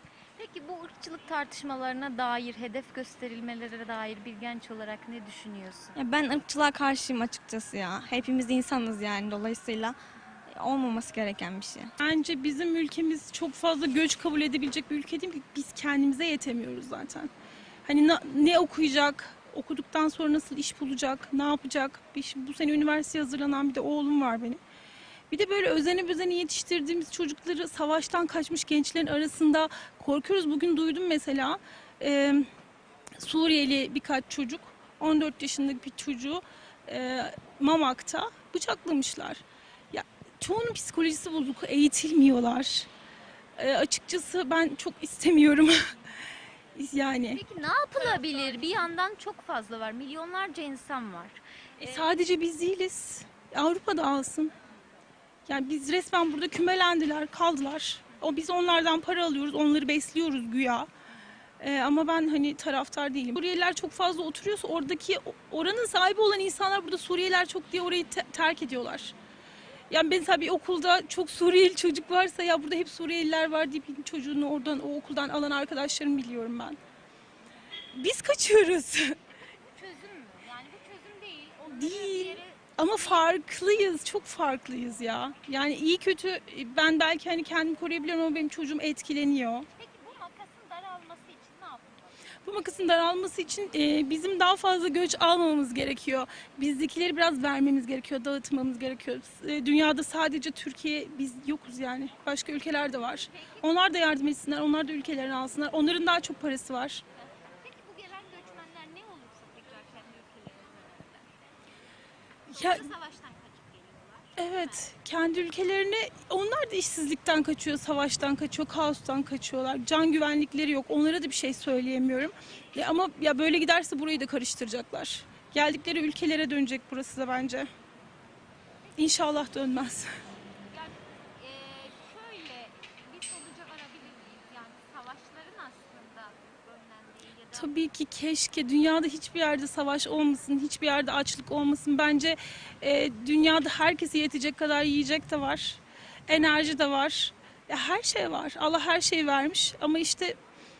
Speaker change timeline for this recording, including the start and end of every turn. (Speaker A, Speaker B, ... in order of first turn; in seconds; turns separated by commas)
Speaker A: 0.4-5.9, Speaker B: 6.0-9.9, Speaker B: 10.5-11.9, Speaker C: 12.0-17.3, Speaker C: 17.9-24.6, Speaker C: 25.3-32.5, Speaker C: 33.2-42.9, Speaker C: 43.6-45.8, Speaker C: 46.8-47.4, Speaker A: 47.3-52.0, Speaker C: 51.8-54.5, Speaker C: 55.5-60.9, Speaker C: 61.6-69.1, Speaker C: 69.9-76.8, Speaker C: 78.0-79.1, Speaker A: 79.7-83.3, Speaker C: 81.7-89.7, Speaker A: 89.8-91.9, Speaker C: 92.5-107.0, Speaker A: 103.3-103.7, Speaker A: 107.2-111.3, Speaker A: 112.5-114.8, Speaker C: 112.5-112.9, Speaker C: 114.4-127.7, Speaker C: 129.0-130.1, Speaker A: 130.7-137.7, Speaker C: 137.5-150.4